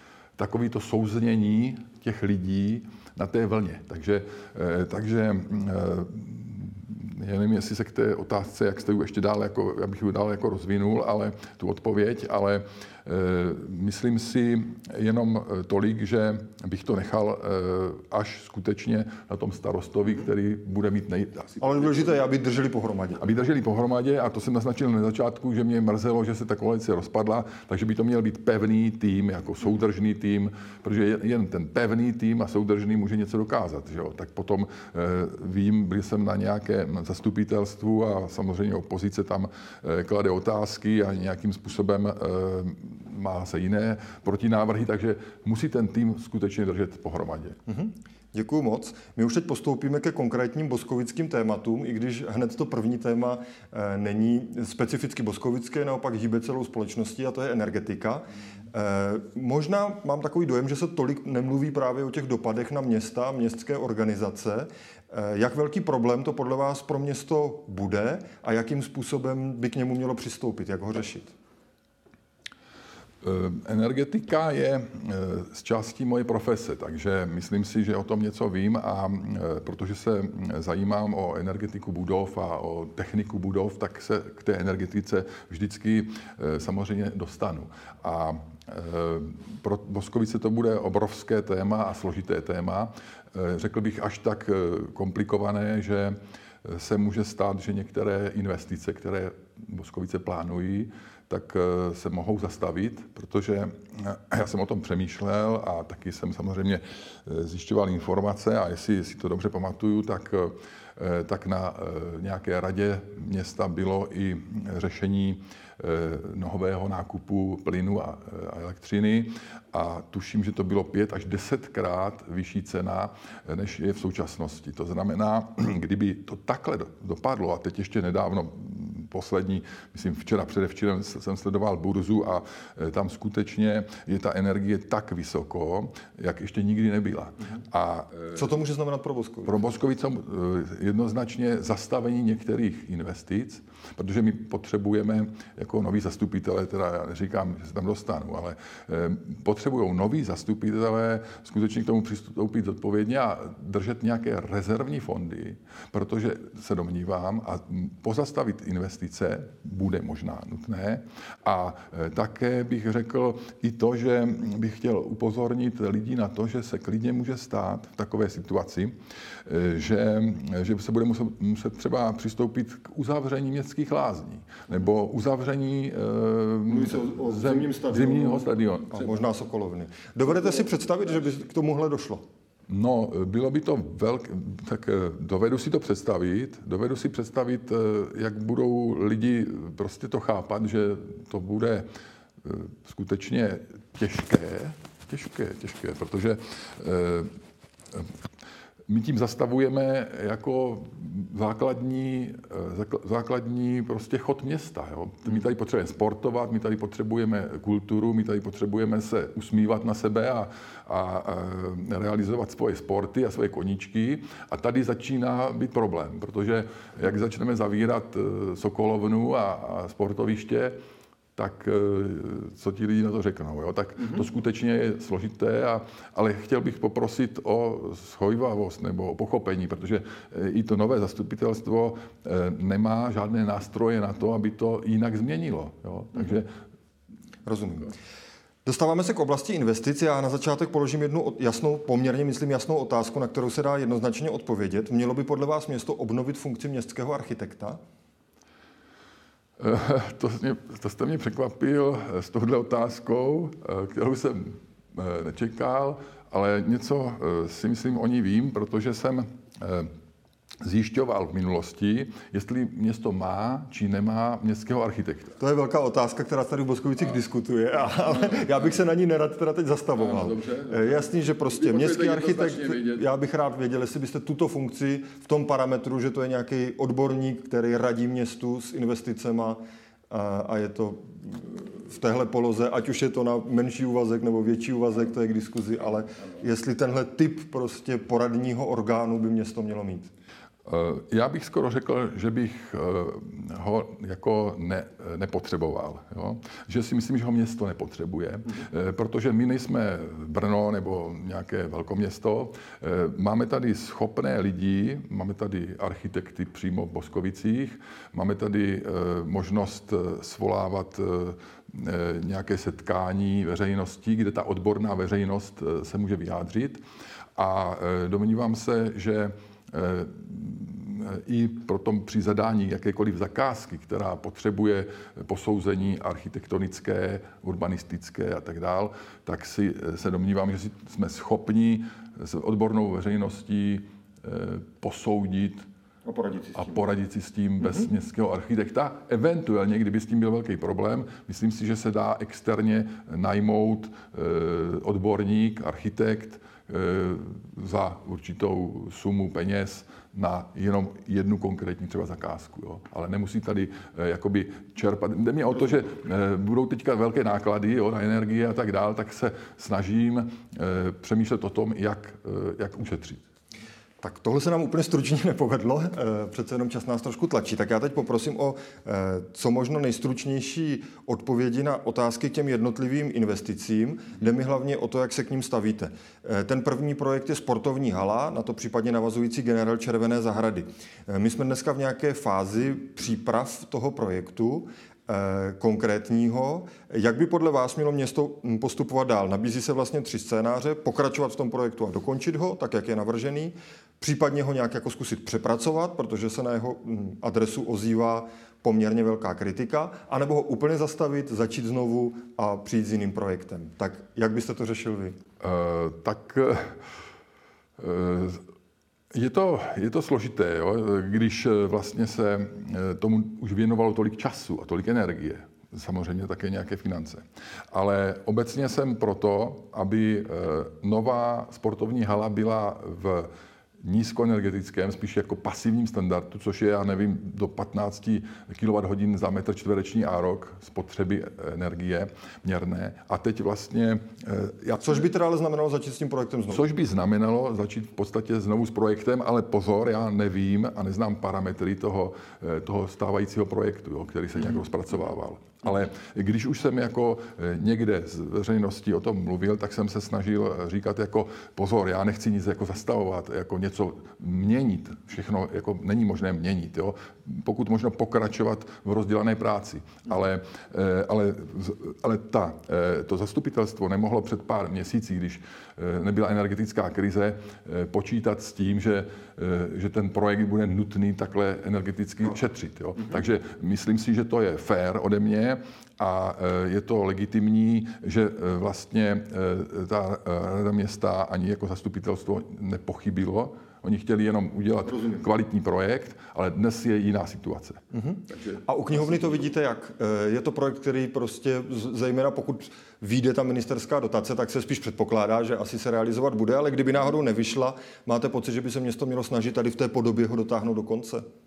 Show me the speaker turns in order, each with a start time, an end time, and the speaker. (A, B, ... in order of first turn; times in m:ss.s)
0:00.4-0:21.8 A
0:21.6-0:23.2 B
0:23.2-0:47.6 A
0:47.7-1:11.3 B
1:13.2-2:18.4 A
2:18.3-2:19.6 B
2:19.5-2:59.2 A
2:56.7-3:02.2 B
3:02.7-3:11.9 A
3:12.4-3:17.3 A
3:18.9-3:40.8 A
3:41.4-3:56.5 A
3:57.5-3:57.9 B
3:58.6-4:07.8 B
4:09.6-4:19.9 A
4:20.6-4:25.4 A
4:25.4-4:50.1 B
4:30.0-4:33.0 A
4:50.7-5:16.8 A
5:17.4-5:35.7 A
5:36.0-5:36.8 B
5:36.6-6:03.2 A
6:04.0-6:45.2 B
6:45.4-6:46.8 A
6:47.8-6:48.4 A
6:49.1-7:03.3 A
7:03.8-7:15.0 A
7:14.8-7:16.7 B
7:16.5-8:07.8 A
8:07.9-8:21.2 B
8:08.5-8:09.3 A